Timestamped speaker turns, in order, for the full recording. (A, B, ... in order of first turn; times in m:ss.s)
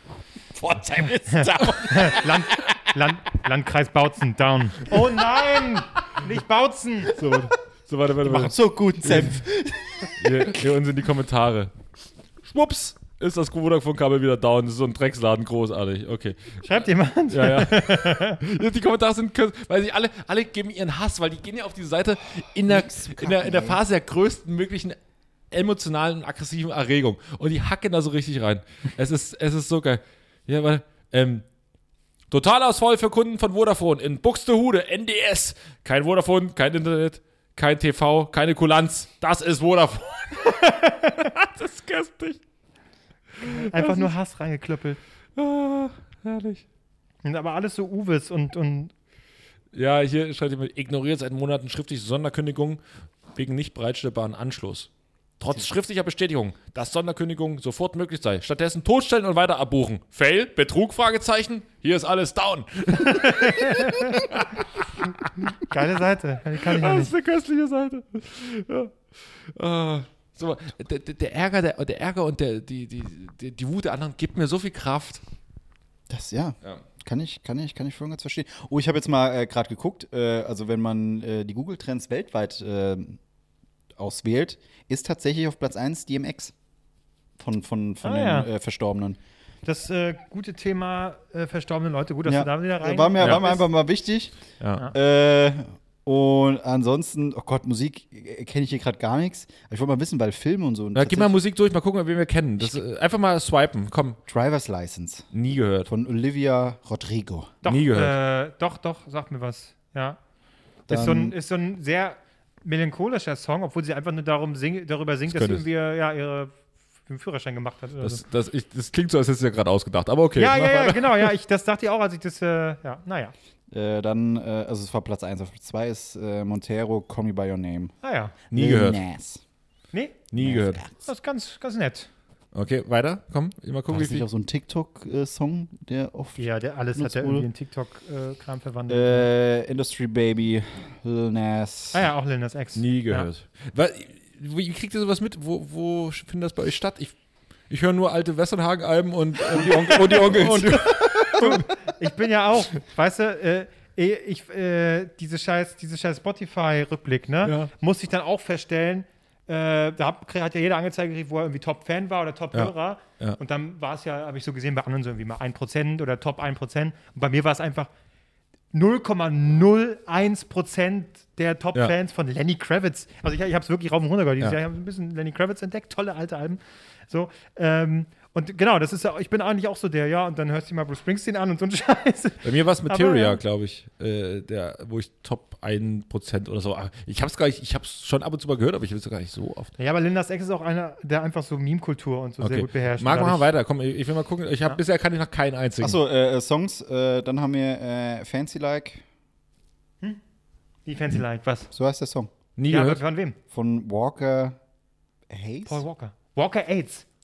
0:00.5-0:02.8 A
0:01.3-0:07.2 B
0:07.1-0:09.4 C
0:08.2-0:10.6 A
0:10.2-0:11.7 C
0:12.4-0:25.0 C
0:16.6-0:18.4 B
0:22.6-0:23.8 A
0:25.5-0:31.4 C
0:32.3-0:42.4 C
0:40.6-0:41.1 B
0:43.4-0:44.1 C
0:43.4-0:45.0 B
0:45.4-0:46.6 C
0:47.2-0:48.9 B
0:49.7-0:52.8 C
0:53.3-0:54.9 C
0:55.4-1:04.6 C
1:03.0-1:04.2 B
1:05.5-1:07.1 B
1:06.6-1:15.2 C
1:16.1-1:23.2 A
1:24.0-1:26.5 A
1:27.4-1:29.2 A
1:28.0-1:28.5 B
1:29.6-1:33.6 B
1:32.2-1:34.3 A
1:34.6-1:34.9 C
1:34.9-1:41.3 A
1:40.9-1:44.2 C
1:44.3-1:45.3 A
1:45.3-1:45.9 C
1:45.8-1:47.5 A
1:47.6-1:50.2 B
1:47.6-1:48.2 C
1:50.9-1:56.5 B
1:50.9-1:51.3 A
1:55.3-1:55.7 C
1:57.1-1:58.2 B
1:58.0-2:01.3 C
2:00.4-2:03.3 B
2:03.7-2:07.9 A
2:08.0-2:08.3 B
2:08.5-2:09.0 C
2:08.5-2:09.4 A
2:09.9-2:10.2 B
2:10.3-2:10.8 C
2:10.4-2:10.9 A
2:10.9-2:12.1 B
2:12.5-2:14.2 C
2:13.9-2:16.4 A
2:16.4-2:19.3 B
2:16.9-2:17.5 A
2:18.9-2:22.0 A
2:21.9-2:23.3 B
2:22.8-2:27.1 C
2:27.7-2:31.7 C
2:29.5-2:31.6 A
2:31.3-2:47.9 B
2:37.4-2:37.7 C
2:42.5-2:43.4 C
2:48.7-3:03.4 B
3:02.4-3:09.7 C
3:09.8-3:13.5 B
3:12.4-3:16.0 C
3:15.8-3:19.0 A
3:20.8-3:21.7 B
3:21.7-3:22.3 A
3:22.6-3:23.0 C
3:22.7-3:23.4 B
3:23.5-3:24.6 A
3:25.3-3:25.8 A
3:25.6-3:27.0 B